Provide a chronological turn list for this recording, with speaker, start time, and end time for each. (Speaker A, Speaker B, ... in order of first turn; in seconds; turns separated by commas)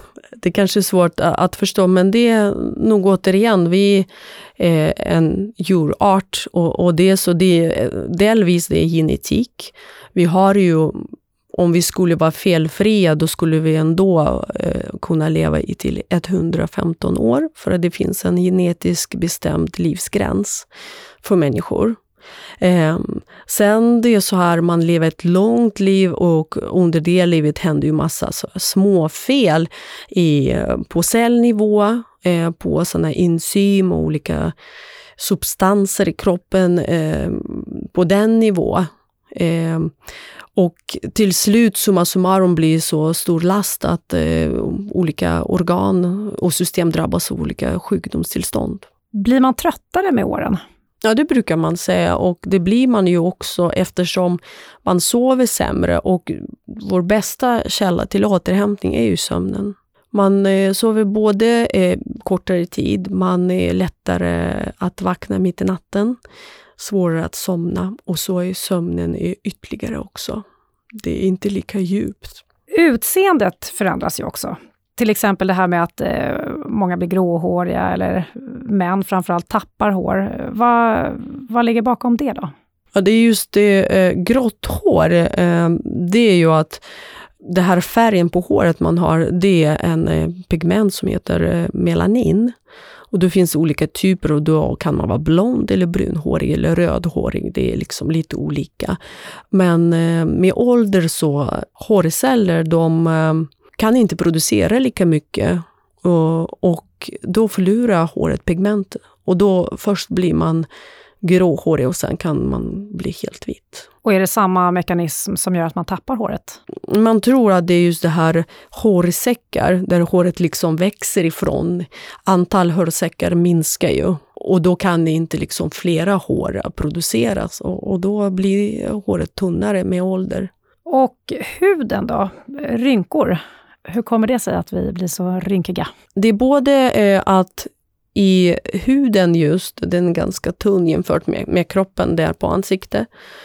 Speaker A: 0.3-4.1, Speaker A: 4.6-20.7, Speaker A: 21.2-22.0, Speaker A: 22.6-34.5, Speaker A: 35.2-39.9, Speaker A: 40.5-48.9, Speaker B: 49.1-50.6, Speaker A: 51.0-66.2, Speaker A: 66.8-70.4, Speaker A: 71.0-72.4, Speaker B: 72.7-82.5, Speaker A: 82.9-86.8, Speaker A: 87.4-92.5, Speaker A: 93.1-99.0, Speaker A: 99.5-110.7, Speaker A: 111.2-113.9, Speaker B: 114.0-116.6, Speaker A: 116.8-130.5, Speaker B: 130.9-135.9, Speaker A: 136.2-143.1